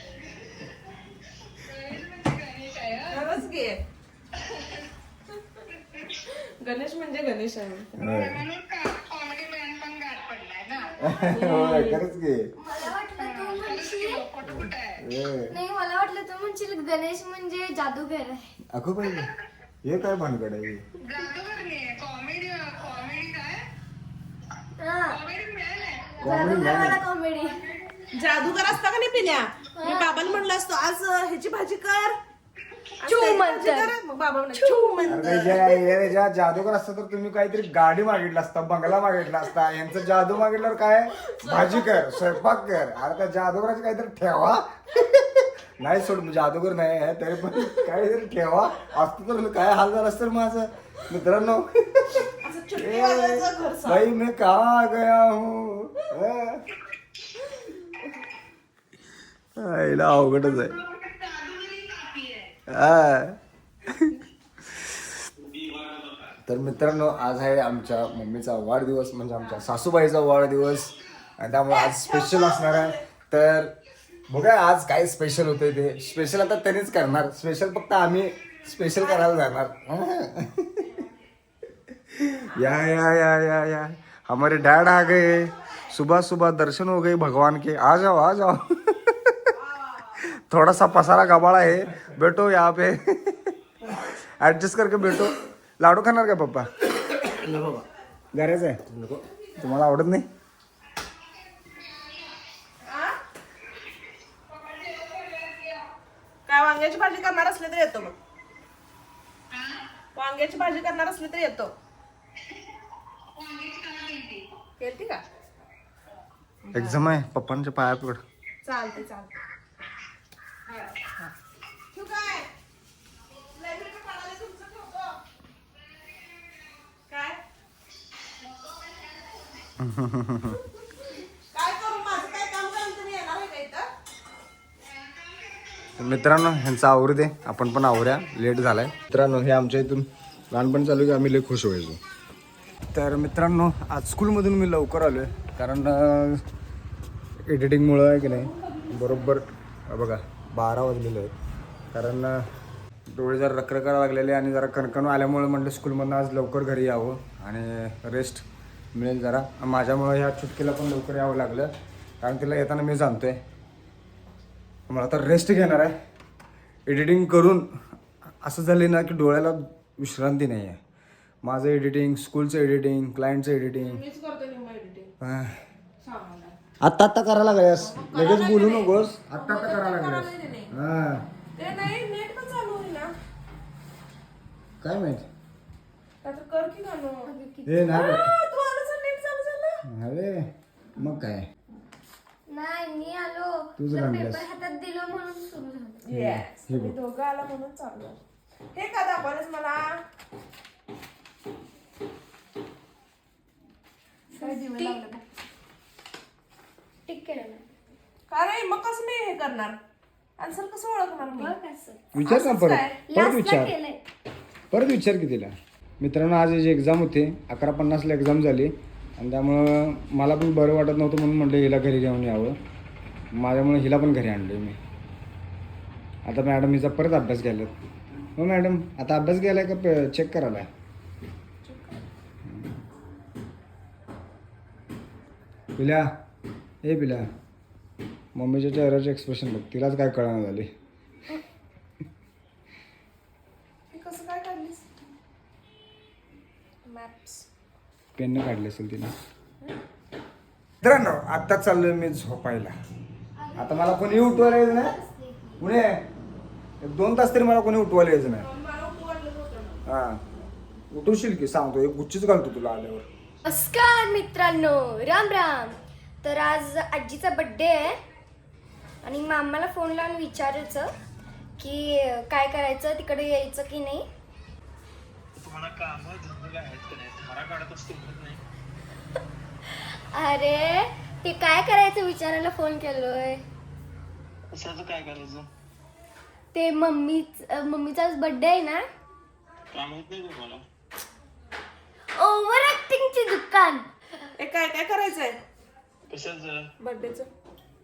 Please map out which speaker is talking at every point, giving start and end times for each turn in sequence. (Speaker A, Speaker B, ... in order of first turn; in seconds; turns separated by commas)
Speaker A: 1.6-3.2, Speaker B: 3.1-3.8, Speaker A: 4.4-4.8, Speaker A: 5.7-6.2, Speaker B: 6.1-8.0, Speaker C: 8.0-8.4, Speaker A: 8.0-11.0, Speaker C: 11.0-12.5, Speaker B: 11.2-12.0, Speaker D: 12.6-14.3, Speaker A: 13.2-15.0, Speaker C: 15.0-15.5, Speaker D: 15.5-18.5, Speaker C: 18.7-19.3, Speaker C: 19.8-20.8, Speaker A: 21.0-23.6, Speaker D: 24.8-25.2, Speaker A: 25.1-26.3, Speaker C: 26.2-27.0, Speaker D: 26.2-27.5, Speaker B: 28.1-32.1, Speaker D: 29.8-30.4, Speaker B: 33.0-35.8, Speaker D: 33.0-33.9, Speaker D: 34.5-35.8, Speaker C: 35.0-56.6, Speaker B: 41.2-42.4, Speaker B: 52.3-54.1, Speaker C: 59.6-60.8, Speaker A: 60.6-62.5, Speaker C: 62.7-64.1, Speaker C: 64.7-65.0, Speaker E: 65.5-66.0, Speaker C: 66.5-73.7, Speaker B: 71.7-73.0, Speaker C: 74.3-81.0, Speaker B: 79.0-79.3, Speaker C: 82.1-89.5, Speaker B: 84.9-85.9, Speaker B: 89.5-90.2, Speaker C: 90.3-96.7, Speaker B: 97.2-97.8, Speaker C: 98.3-100.2, Speaker B: 99.2-99.7, Speaker A: 101.6-102.2, Speaker B: 102.8-103.2, Speaker A: 104.5-105.8, Speaker B: 106.5-108.1, Speaker A: 109.5-109.9, Speaker B: 110.1-111.7, Speaker A: 113.3-114.5, Speaker B: 114.8-115.2, Speaker B: 116.6-117.0, Speaker C: 116.7-118.2, Speaker B: 118.6-119.3, Speaker B: 121.9-122.5, Speaker B: 123.4-125.2, Speaker B: 127.1-127.4, Speaker C: 129.8-130.6, Speaker B: 131.0-133.9, Speaker C: 136.0-142.0, Speaker C: 142.9-146.4, Speaker C: 147.4-151.3, Speaker B: 148.2-149.4, Speaker C: 151.9-152.4, Speaker C: 153.1-161.7, Speaker C: 162.2-163.4, Speaker C: 164.9-165.9, Speaker C: 166.9-167.7, Speaker C: 168.4-170.8, Speaker C: 171.4-174.0, Speaker B: 173.8-175.1, Speaker C: 175.2-175.6, Speaker B: 176.0-176.5, Speaker C: 176.8-181.2, Speaker B: 177.8-180.7, Speaker B: 181.6-183.1, Speaker C: 184.8-185.2, Speaker B: 186.2-187.3, Speaker D: 187.2-187.9, Speaker C: 187.7-188.3, Speaker B: 187.9-189.8, Speaker C: 189.9-191.4, Speaker D: 192.5-196.1, Speaker C: 193.8-194.4, Speaker B: 196.0-198.2, Speaker C: 196.1-196.9, Speaker B: 198.7-200.0, Speaker D: 204.3-205.1, Speaker B: 204.3-205.2, Speaker D: 207.1-207.6, Speaker B: 208.3-209.8, Speaker B: 210.4-211.5, Speaker D: 211.2-212.1, Speaker C: 212.1-213.7, Speaker B: 212.2-213.0, Speaker D: 213.1-214.0, Speaker C: 214.7-222.6, Speaker C: 223.3-224.8, Speaker C: 226.2-227.7, Speaker C: 228.3-230.7, Speaker B: 231.7-232.0, Speaker C: 232.4-232.8, Speaker C: 235.8-236.1, Speaker C: 236.8-237.2, Speaker C: 238.3-240.7, Speaker B: 243.9-244.8, Speaker B: 246.8-247.4, Speaker C: 248.2-249.1, Speaker C: 250.8-252.7, Speaker D: 253.4-255.6, Speaker C: 253.6-254.9, Speaker C: 255.6-256.0, Speaker C: 256.8-258.5, Speaker B: 258.4-259.8, Speaker C: 259.9-260.2, Speaker C: 260.9-263.0, Speaker D: 263.4-267.9, Speaker D: 269.0-270.9, Speaker D: 271.6-274.1, Speaker E: 275.4-278.4, Speaker D: 279.6-283.4, Speaker E: 284.5-285.5, Speaker D: 286.5-288.9, Speaker E: 289.7-290.6, Speaker D: 292.1-293.9, Speaker B: 294.4-295.4, Speaker E: 296.1-296.7, Speaker B: 296.8-297.3